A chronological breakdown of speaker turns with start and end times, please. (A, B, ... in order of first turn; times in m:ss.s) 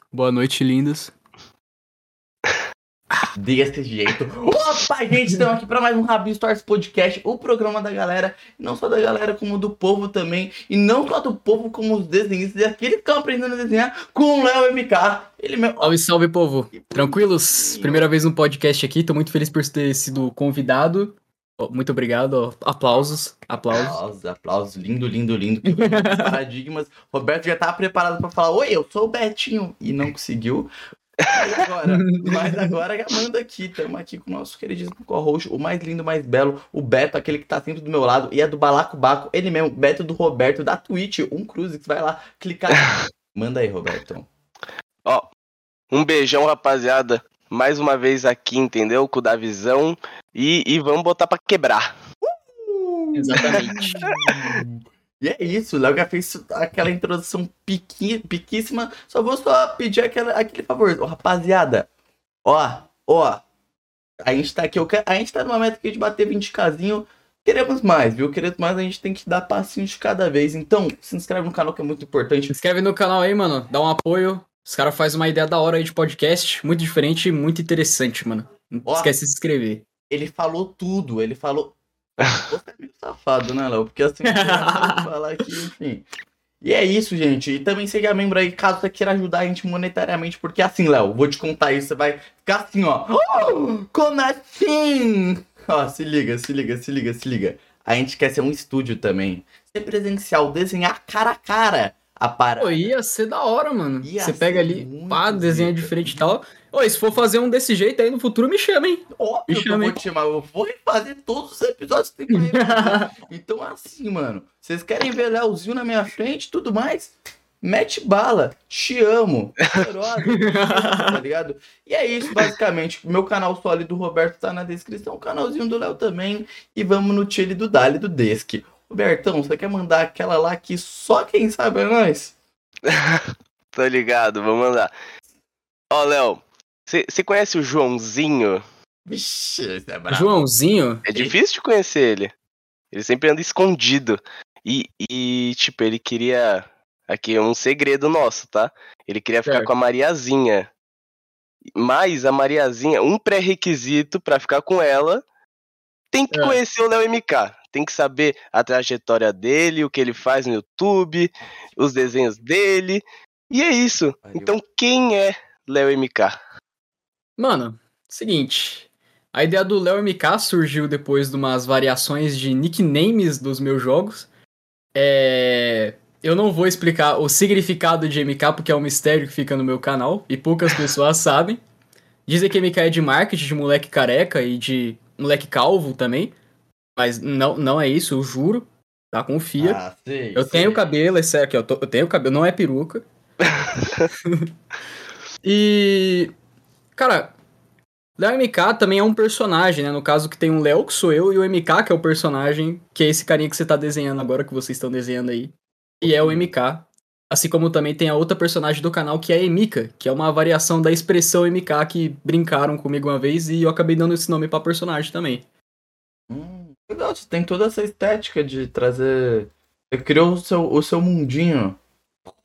0:00.1-0:01.1 A
0:03.3-0:15.9 B
0:15.8-0:24.0 A
0:16.7-0:18.1 B
0:23.7-0:30.7 B
0:25.6-0:26.3 A
0:31.2-0:44.3 B
0:31.9-0:32.7 A
0:45.9-0:51.9 C
0:52.2-1:01.9 B
0:53.1-0:54.0 A
0:53.4-0:54.6 C
1:02.4-1:03.4 B
1:04.2-1:12.6 B
1:12.5-1:19.8 A
1:18.8-1:19.1 B
1:20.1-1:21.8 B
1:22.3-1:26.0 B
1:24.2-1:25.1 A
1:26.6-1:42.9 B
1:42.6-1:50.0 A
1:44.0-1:46.3 B
1:49.1-2:12.3 B
1:52.3-1:53.1 A
2:00.2-2:01.2 A
2:12.8-2:14.9 C
2:15.9-2:18.6 C
2:19.1-2:20.4 B
2:20.1-2:21.3 A
2:21.1-2:22.3 C
2:22.9-2:30.7 C
2:31.8-2:35.2 C
2:36.1-2:46.4 C
2:36.3-2:36.6 A
2:44.2-2:44.5 B
2:47.4-2:54.3 A
2:54.9-3:01.6 A
3:02.3-3:06.3 A
3:07.0-3:09.8 A
3:09.6-3:10.8 B
3:10.4-3:13.0 A
3:15.4-3:16.3 A
3:17.0-3:17.4 A
3:18.2-3:35.4 A
3:26.0-3:26.5 B
3:36.3-3:41.8 B